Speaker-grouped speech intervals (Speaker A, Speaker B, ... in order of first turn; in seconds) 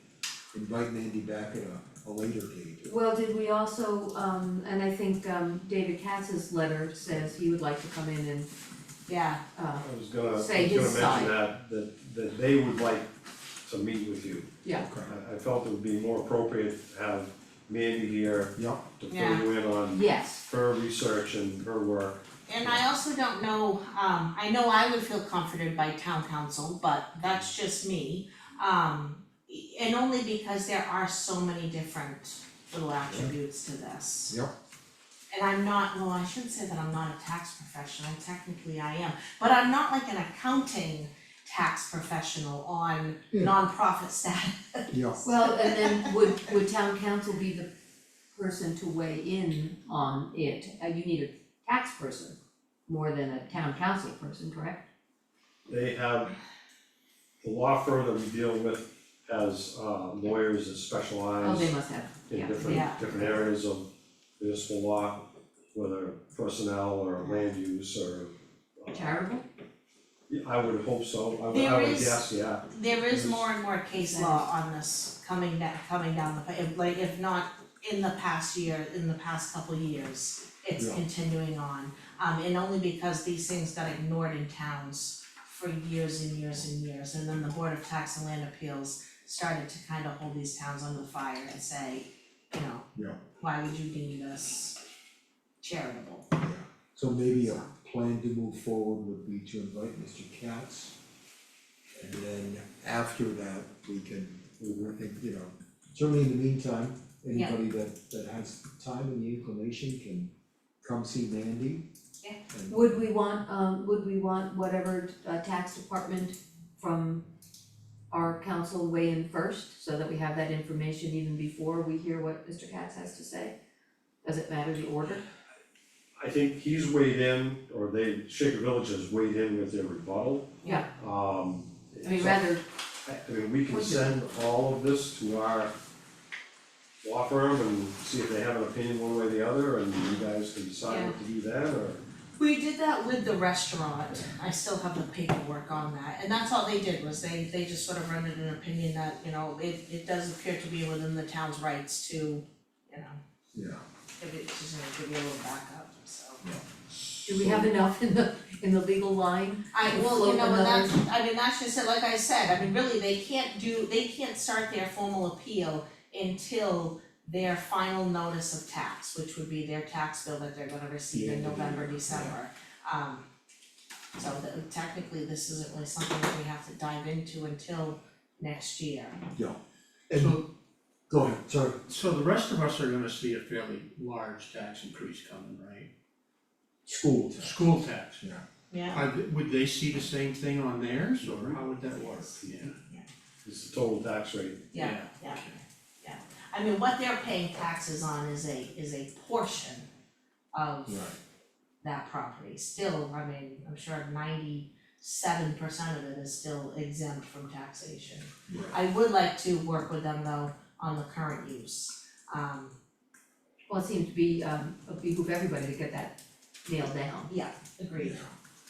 Speaker A: 0.5-2.9, 14.7-15.2, 18.6-18.8, 44.9-45.2, 92.9-93.2, 96.4-100.9, 102.0-110.3, 110.8-111.8, 112.5-112.9, 153.5-153.8, 171.1-172.4, 180.1-180.4, 181.1-181.8, 186.8-187.6, 200.9-201.2, 208.5-208.7, 218.0-218.3
Speaker B: 2.8-8.5, 9.5-11.3, 19.9-20.4, 45.2-47.7, 48.3-54.8, 61.4-63.3, 68.9-69.4, 73.9-74.5, 112.7-117.2, 118.1-123.5, 124.2-125.2, 132.0-132.6, 133.7-134.0, 157.2-160.9, 213.7-216.1, 216.6-217.3
Speaker C: 9.1-9.4, 19.1-19.5, 22.5-34.3, 35.3-46.1, 62.6-63.0, 67.2-67.4, 71.5-92.8, 93.4-94.8, 95.6-96.3, 140.9-141.1, 142.4-153.2, 154.2-156.4, 159.7-173.2, 174.2-179.2, 188.7-189.0, 194.7-195.5, 196.0-199.8, 200.5-201.1, 201.8-212.7, 217.3-218.3
Speaker D: 9.7-13.1, 13.6-14.5, 15.0-22.7, 55.7-56.3, 57.4-61.7, 62.3-63.9, 64.4-65.2, 65.7-69.2, 70.3-73.5, 104.6-104.9, 126.2-132.4, 133.0-135.7, 137.0-142.0, 191.2-191.6, 193.4-194.7
Speaker E: 180.1-180.4, 181.9-185.9, 187.4-188.2, 188.9-192.8, 194.7-195.6